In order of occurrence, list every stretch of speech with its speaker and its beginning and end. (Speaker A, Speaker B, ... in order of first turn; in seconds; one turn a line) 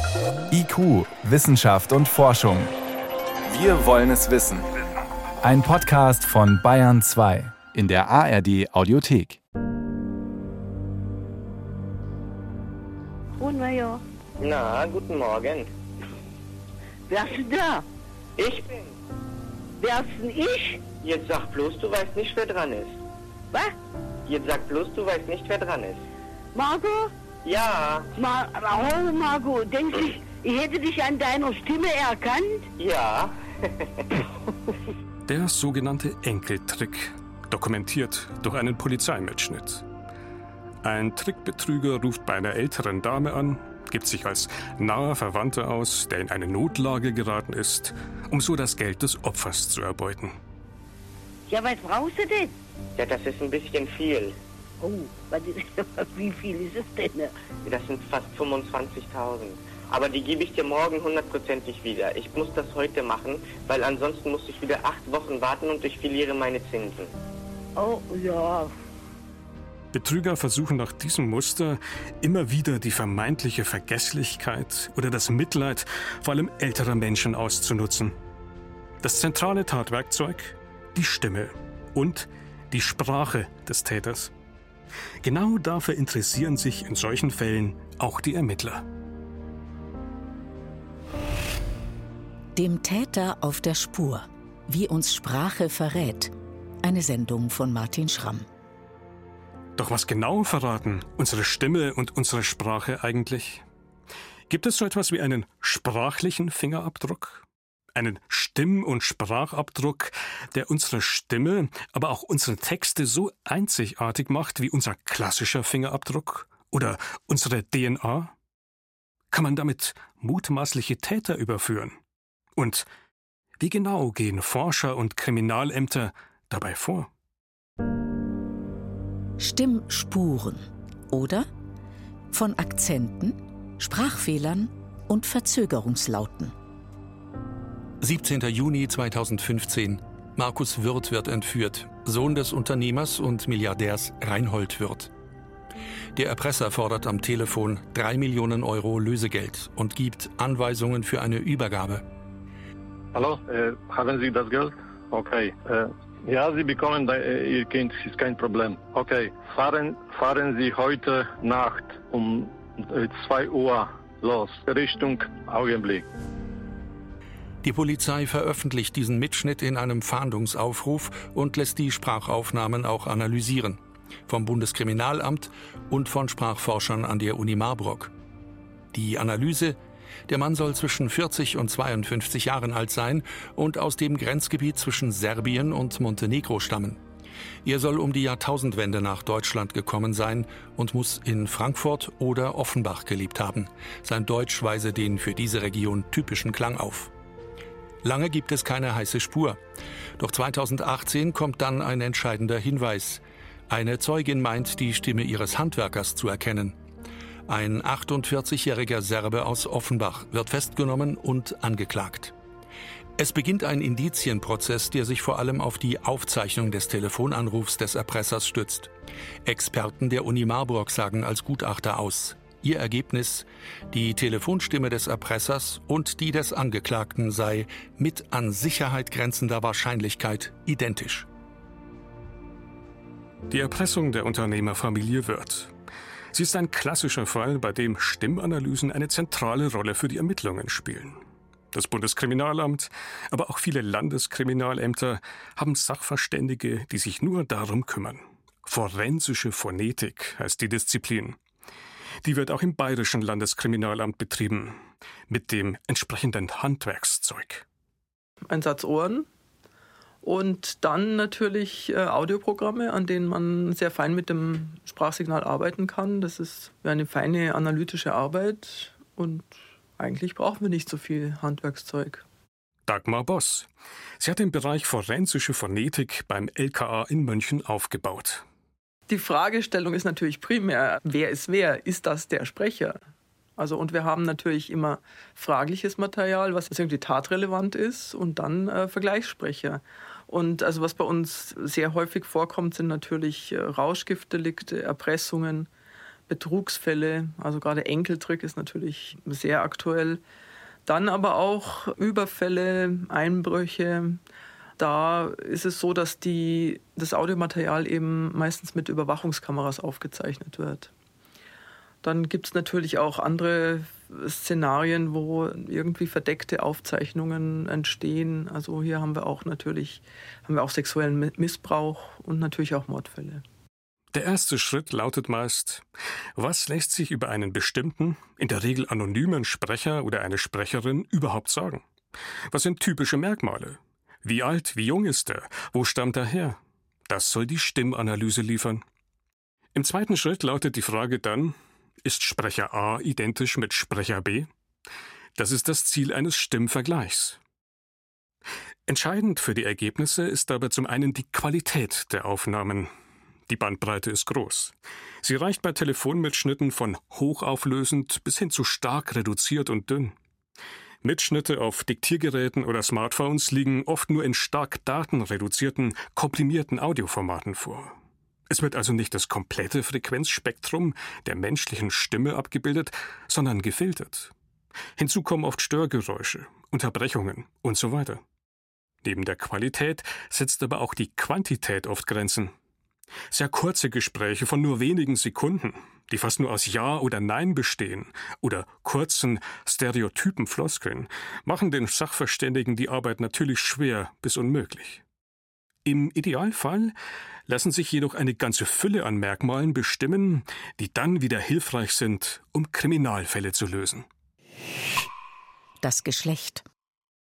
Speaker A: 0.5-2.7
Speaker A: 3.5-4.7
Speaker A: 5.4-9.4
Speaker B: 13.4-14.0
Speaker C: 14.4-15.7
Speaker B: 17.1-17.8
Speaker C: 18.4-18.9
Speaker B: 19.8-20.8
Speaker C: 21.0-23.0
Speaker C: 24.3-26.0
Speaker B: 26.5-27.1
Speaker C: 27.4-28.1
Speaker B: 28.2-32.7
Speaker C: 32.8-33.9
Speaker D: 35.3-39.8
Speaker D: 40.8-50.4
Speaker B: 51.5-52.5
Speaker C: 53.0-54.3
Speaker B: 54.8-57.3
Speaker C: 57.6-67.1
Speaker B: 67.8-68.7
Speaker D: 69.9-78.2
Speaker D: 79.0-84.3
Speaker D: 85.2-88.8
Speaker E: 92.5-96.3
Speaker E: 96.8-98.5
Speaker D: 99.8-103.6
Speaker D: 104.5-118.3
Speaker D: 119.3-122.0
Speaker D: 122.5-122.9
Speaker D: 123.6-127.1
Speaker E: 129.4-131.5
Speaker E: 132.3-136.5
Speaker F: 138.0-145.1
Speaker F: 146.2-152.1
Speaker G: 153.1-166.1
Speaker F: 167.6-178.1
Speaker F: 178.9-179.8
Speaker F: 180.3-187.0
Speaker F: 187.6-197.1
Speaker F: 198.0-199.6
Speaker F: 200.2-206.8
Speaker F: 207.5-212.3
Speaker F: 213.2-218.9
Speaker F: 219.4-231.3
Speaker D: 233.5-235.7
Speaker D: 236.3-241.2
Speaker D: 241.7-251.4
Speaker D: 252.2-257.6
Speaker H: 258.5-259.3
Speaker H: 260.2-272.2
Speaker D: 272.9-273.7
Speaker D: 274.2-278.4
Speaker H: 279.1-283.0
Speaker H: 283.6-295.7
Speaker H: 296.3-300.2
Speaker H: 300.9-304.2
Speaker H: 304.8-310.9
Speaker H: 312.0-323.4
Speaker D: 324.1-325.8
Speaker D: 326.4-331.8
Speaker D: 332.5-338.8
Speaker D: 339.7-344.5
Speaker D: 345.4-347.4
Speaker D: 348.9-352.9
Speaker D: 353.5-360.1
Speaker D: 361.0-367.9
Speaker D: 368.5-374.3
Speaker D: 375.0-378.2
Speaker D: 379.0-382.5
Speaker D: 383.3-395.0
Speaker D: 395.8-396.9
Speaker D: 397.5-404.1
Speaker E: 405.8-406.6